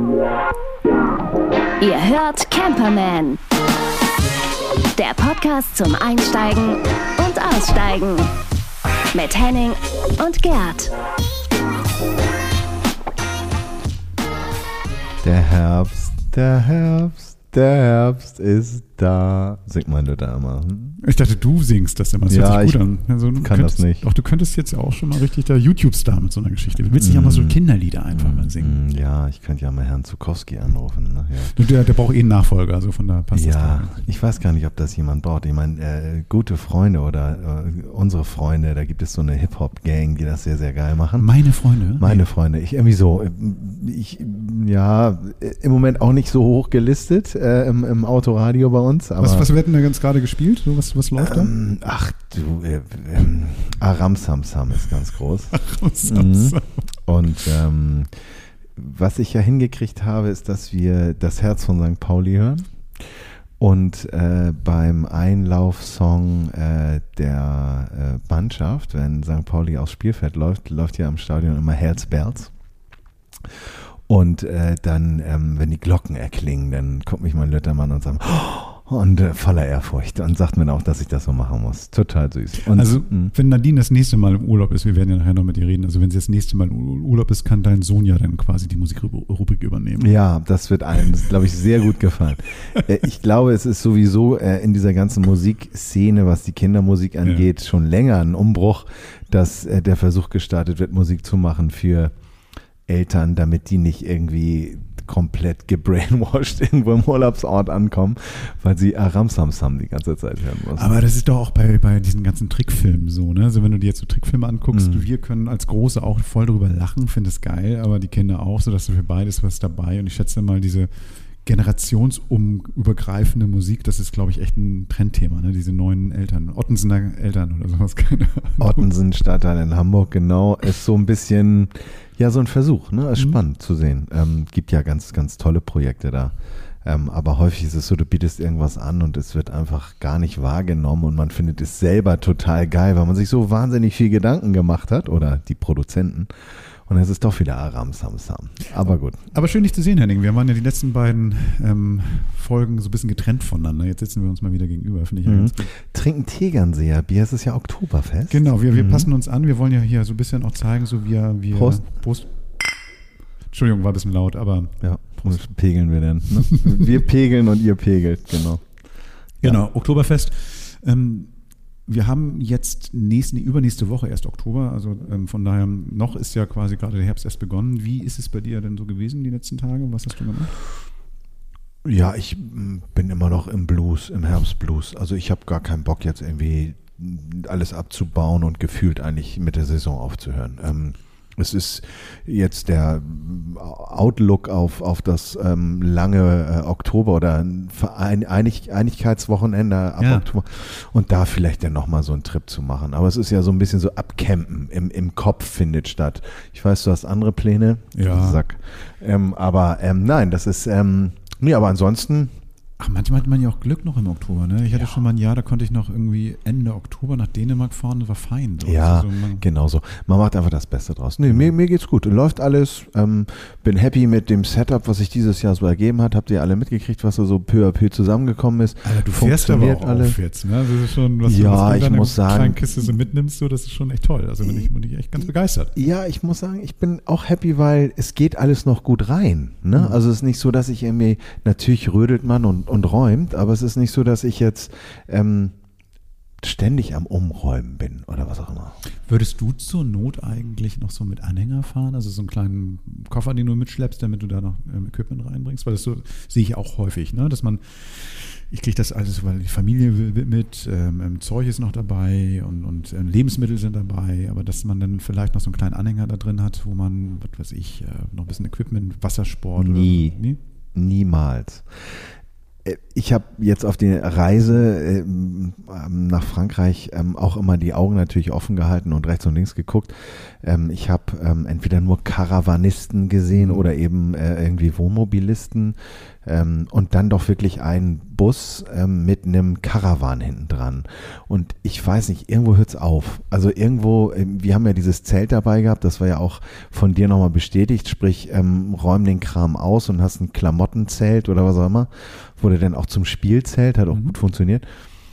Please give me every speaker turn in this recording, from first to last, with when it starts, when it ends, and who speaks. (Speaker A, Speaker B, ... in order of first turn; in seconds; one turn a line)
Speaker A: 1.8-3.4
Speaker A: 5.0-8.3
Speaker A: 9.1-10.9
Speaker B: 15.2-21.0
Speaker C: 21.0-28.8
Speaker B: 22.3-22.8
Speaker B: 23.4-24.0
Speaker B: 27.0-27.6
Speaker B: 28.1-31.5
Speaker C: 31.5-33.9
Speaker B: 33.3-41.3
Speaker C: 41.2-42.2
Speaker B: 42.0-49.5
Speaker C: 49.2-51.5
Speaker B: 51.2-63.1
Speaker C: 55.5-56.8
Speaker B: 63.6-72.5
Speaker B: 73.5-83.3
Speaker C: 82.7-90.1
Speaker B: 90.0-102.1
Speaker B: 102.9-111.0
Speaker C: 110.7-128.9
Speaker B: 114.7-115.1
Speaker B: 128.6-146.3
Speaker B: 146.8-149.2
Speaker C: 149.3-155.7
Speaker B: 155.3-159.1
Speaker C: 158.3-162.3
Speaker B: 161.5-161.8
Speaker C: 163.5-165.5
Speaker B: 164.8-168.7
Speaker C: 166.5-166.9
Speaker C: 169.4-171.3
Speaker C: 171.9-180.6
Speaker B: 181.8-212.3
Speaker C: 200.0-200.2
Speaker C: 207.9-208.4
Speaker C: 212.8-219.4
Speaker B: 218.6-230.2
Speaker C: 228.8-235.7
Speaker B: 231.2-232.9
Speaker B: 235.8-245.6
Speaker B: 246.4-248.8
Speaker C: 249.1-270.4
Speaker B: 269.6-270.2
Speaker B: 270.8-272.1
Speaker B: 272.6-304.7
Speaker C: 283.4-283.6